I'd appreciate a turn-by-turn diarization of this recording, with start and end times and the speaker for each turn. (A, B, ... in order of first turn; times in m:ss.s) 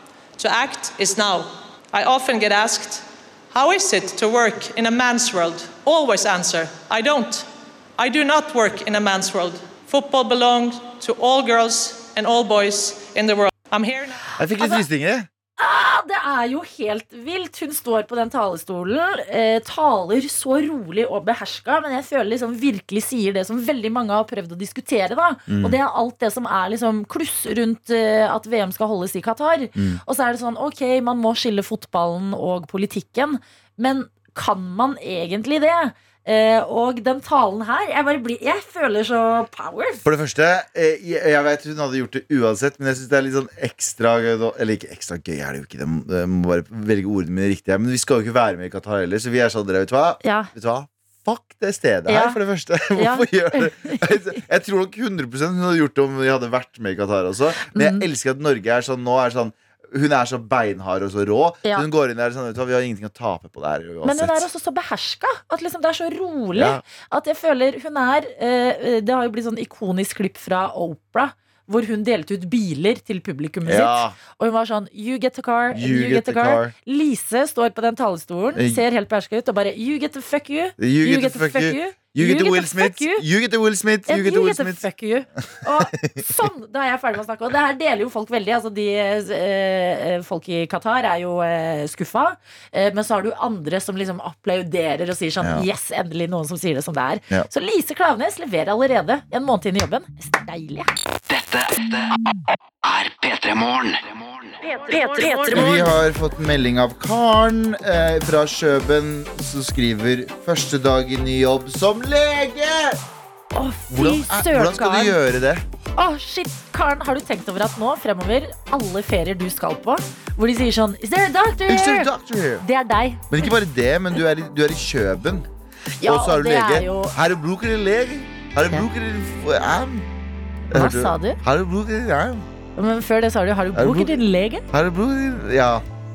0:00.4-0:14.2 A
0:14.4-0:15.3 B
0:15.6-0:40.0 C
0:25.5-0:25.8 B
0:29.8-0:30.0 B
0:40.0-1:04.4 B
0:50.2-0:50.5 C
0:52.1-0:52.4 C
0:52.9-0:54.0 C
0:57.7-0:58.0 C
1:04.0-1:23.2 C
1:06.5-1:06.8 B
1:13.6-1:14.2 B
1:15.7-1:16.7 B
1:18.6-1:18.8 B
1:20.8-1:24.8 B
1:24.1-1:40.9 C
1:26.0-1:26.3 B
1:35.4-1:35.7 B
1:41.3-1:42.2 D
1:42.8-1:45.8 D
1:44.6-1:45.9 C
1:45.5-1:53.0 B
1:53.5-1:55.1 C
1:53.9-1:55.6 B
1:56.0-2:03.5 C
2:01.7-2:02.6 B
2:03.3-2:05.4 B
2:06.0-2:07.2 C
2:06.0-2:10.0 B
2:10.7-2:12.4 B
2:10.7-2:11.4 C
2:12.8-2:14.6 C
2:13.7-2:14.2 B
2:14.7-2:15.8 B